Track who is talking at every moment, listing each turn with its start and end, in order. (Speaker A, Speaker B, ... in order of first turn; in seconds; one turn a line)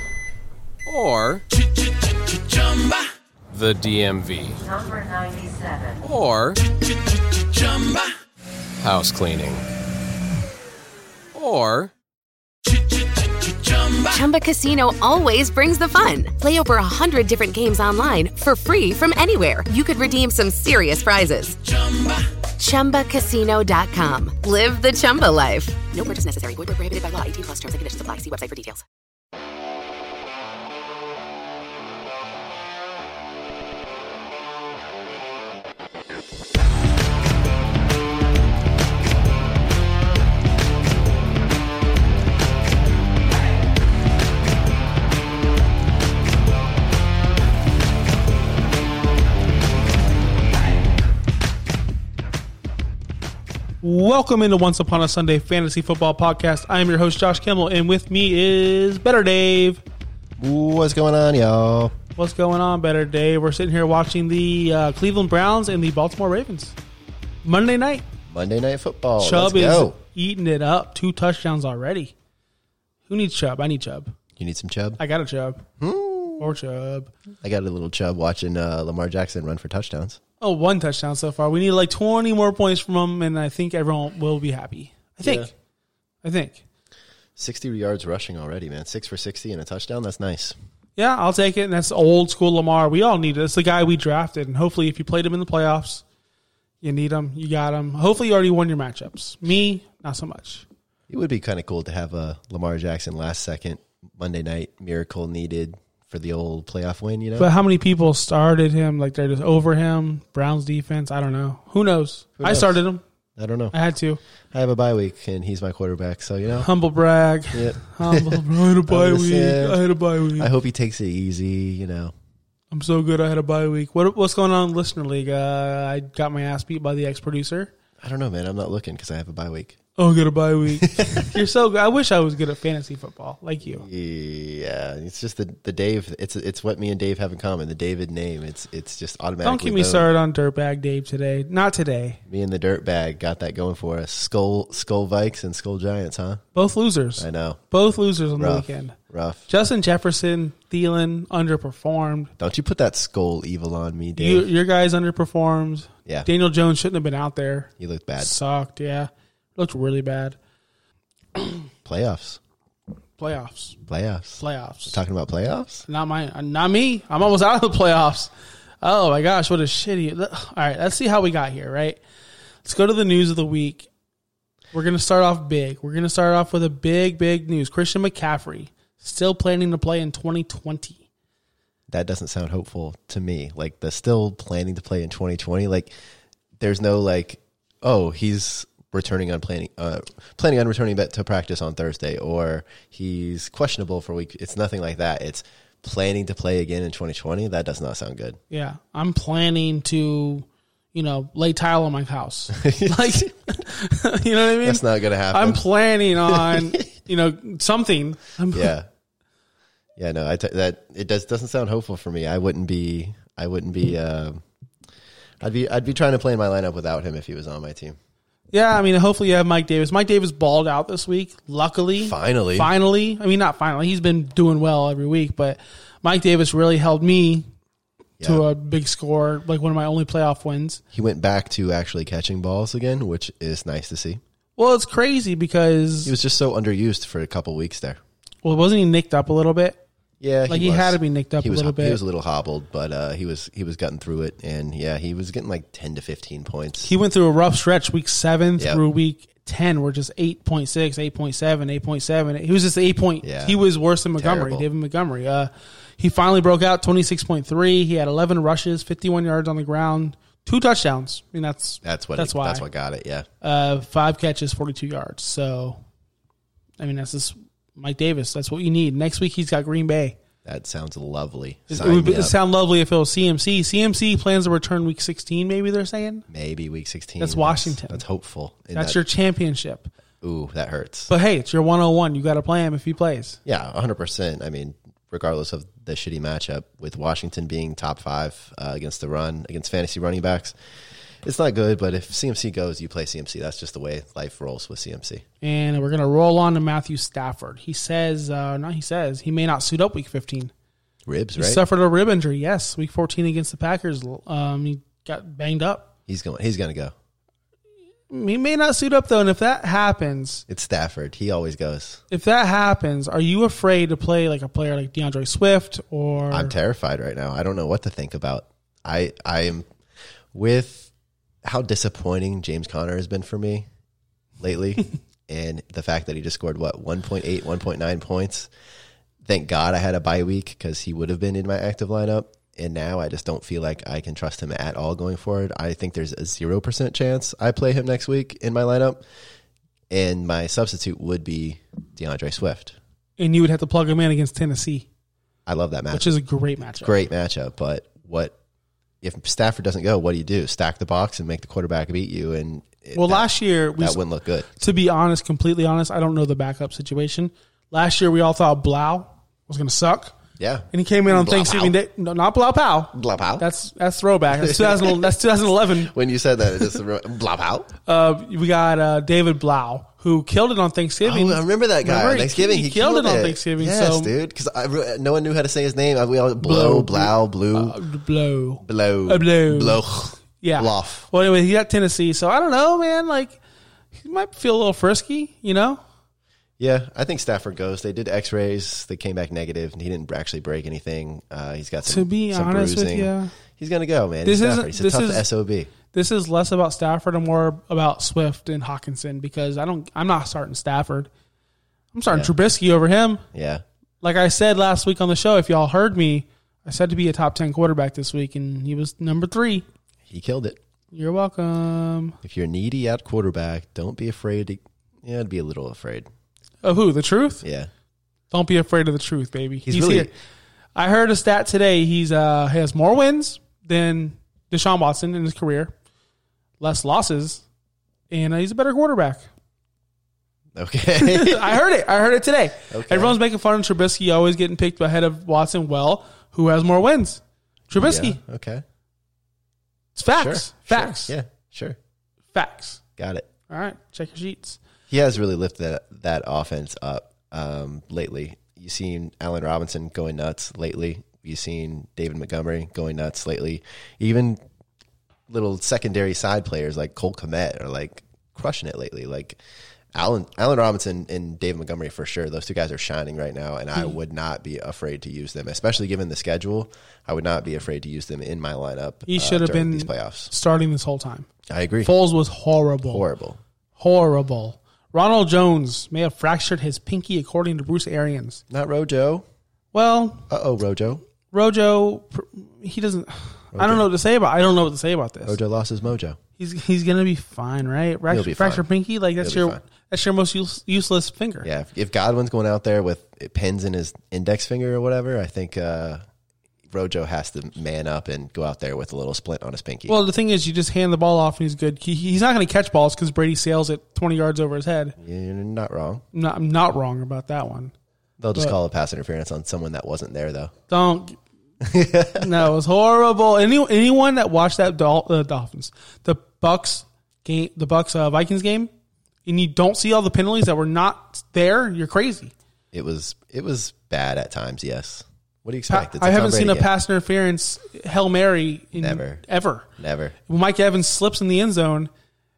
Speaker A: 0.8-1.4
Speaker A: 3.5-4.6
Speaker B: 4.7-6.0
Speaker A: 6.0-6.7
Speaker A: 7.7-8.0
Speaker A: 8.8-9.6
Speaker A: 11.3-11.9
Speaker B: 14.0-28.8
Speaker C: 53.8-59.8
Speaker D: 60.4-61.9
Speaker C: 62.2-66.7
Speaker C: 67.4-68.0
Speaker D: 68.3-70.0
Speaker C: 69.2-72.1
Speaker C: 73.1-74.1
Speaker D: 74.4-75.0
Speaker C: 75.0-75.7
Speaker D: 75.8-76.5
Speaker C: 76.4-77.1
Speaker D: 77.4-80.2
Speaker C: 80.4-85.5
Speaker D: 85.2-85.5
Speaker C: 86.2-86.6
Speaker D: 87.3-90.5
Speaker C: 91.0-96.0
Speaker C: 96.8-100.6
Speaker D: 101.1-107.5
Speaker C: 107.4-113.0
Speaker D: 112.4-112.8
Speaker D: 113.4-113.7
Speaker C: 113.7-114.2
Speaker D: 114.5-116.7
Speaker C: 116.6-120.5
Speaker D: 117.5-119.8
Speaker D: 120.4-122.1
Speaker C: 122.7-127.7
Speaker D: 128.0-129.8
Speaker C: 130.0-133.8
Speaker D: 130.8-131.4
Speaker D: 133.6-140.1
Speaker C: 139.4-142.2
Speaker D: 142.3-146.4
Speaker C: 146.5-148.9
Speaker D: 147.2-147.6
Speaker D: 148.4-149.4
Speaker C: 149.5-152.3
Speaker D: 152.4-154.5
Speaker C: 154.2-160.4
Speaker D: 157.8-158.3
Speaker C: 161.4-161.6
Speaker D: 161.8-162.4
Speaker C: 163.2-163.8
Speaker D: 163.9-165.8
Speaker C: 164.4-164.9
Speaker C: 165.9-168.3
Speaker C: 168.8-172.0
Speaker C: 172.6-173.9
Speaker C: 174.7-181.0
Speaker D: 181.9-185.9
Speaker D: 186.6-198.4
Speaker C: 198.5-208.7
Speaker D: 202.6-203.3
Speaker D: 204.6-205.7
Speaker D: 206.2-206.9
Speaker D: 208.5-208.9
Speaker D: 210.0-214.4
Speaker D: 215.4-218.0
Speaker C: 218.5-227.5
Speaker D: 222.0-222.7
Speaker D: 228.2-228.4
Speaker C: 228.2-230.8
Speaker D: 230.9-234.2
Speaker C: 234.6-236.1
Speaker D: 236.0-238.0
Speaker C: 238.4-239.8
Speaker D: 240.2-246.9
Speaker C: 240.5-242.0
Speaker C: 246.8-262.6
Speaker D: 253.2-253.6
Speaker D: 254.2-254.7
Speaker D: 261.8-263.2
Speaker C: 263.4-265.8
Speaker C: 266.8-270.2
Speaker D: 270.4-272.3
Speaker C: 271.7-276.2
Speaker D: 276.3-279.0
Speaker C: 277.2-278.0
Speaker C: 278.7-279.9
Speaker D: 280.2-281.1
Speaker C: 281.1-283.4
Speaker D: 283.4-290.5
Speaker D: 291.2-295.2
Speaker C: 295.4-300.5
Speaker D: 301.1-301.6
Speaker C: 301.4-305.9
Speaker D: 306.1-306.9
Speaker C: 308.1-310.4
Speaker D: 310.5-312.0
Speaker C: 312.1-316.5
Speaker D: 316.3-319.7
Speaker D: 320.3-320.9
Speaker D: 321.4-323.7
Speaker D: 324.4-328.5
Speaker D: 329.2-339.0
Speaker D: 339.9-342.8
Speaker C: 343.2-344.9
Speaker D: 345.4-346.1
Speaker C: 345.9-347.0
Speaker D: 346.8-348.4
Speaker D: 349.0-353.2
Speaker C: 352.9-354.0
Speaker D: 353.8-354.5
Speaker C: 354.5-360.1
Speaker D: 360.4-361.7
Speaker C: 360.7-365.9
Speaker D: 362.9-363.5
Speaker D: 364.3-365.1
Speaker D: 365.7-367.7
Speaker C: 367.9-374.1
Speaker D: 371.0-377.8
Speaker C: 376.4-383.4
Speaker D: 378.6-381.1
Speaker C: 383.9-385.8
Speaker D: 386.6-395.7
Speaker C: 391.9-393.3
Speaker C: 394.2-395.2
Speaker C: 395.9-401.1
Speaker C: 401.9-403.2
Speaker D: 402.1-402.3
Speaker D: 403.3-403.6
Speaker C: 404.0-409.6
Speaker D: 410.1-410.6
Speaker C: 410.9-412.2
Speaker D: 412.2-416.1
Speaker C: 416.6-417.4
Speaker D: 417.4-417.7
Speaker C: 418.3-420.1
Speaker D: 419.6-420.1
Speaker C: 420.8-425.7
Speaker C: 426.6-427.4
Speaker C: 428.1-429.3
Speaker D: 430.5-431.6
Speaker C: 431.0-438.2
Speaker D: 432.7-433.2
Speaker D: 437.8-438.6
Speaker C: 439.9-441.1
Speaker D: 440.1-441.8
Speaker C: 442.3-442.8
Speaker D: 443.0-443.3
Speaker C: 443.5-444.6
Speaker D: 444.9-454.4
Speaker D: 455.3-459.4
Speaker D: 459.9-470.3
Speaker C: 469.1-471.3
Speaker D: 471.5-471.9
Speaker C: 471.8-473.0
Speaker D: 472.9-473.4
Speaker C: 473.8-478.4
Speaker D: 478.5-479.2
Speaker C: 479.7-480.3
Speaker D: 480.3-481.0
Speaker C: 481.3-485.4
Speaker D: 483.5-483.9
Speaker D: 485.2-486.2
Speaker C: 486.4-491.5
Speaker D: 488.1-488.7
Speaker D: 489.2-489.6
Speaker D: 491.4-496.0
Speaker D: 496.7-499.9
Speaker C: 499.9-504.9
Speaker D: 505.0-506.0
Speaker C: 506.1-507.7
Speaker D: 508.2-510.5
Speaker C: 510.7-511.2
Speaker D: 511.6-512.5
Speaker C: 512.1-518.7
Speaker C: 519.2-522.3
Speaker D: 522.7-526.7
Speaker C: 525.7-529.7
Speaker D: 528.8-529.2
Speaker D: 529.8-530.1
Speaker C: 530.3-531.9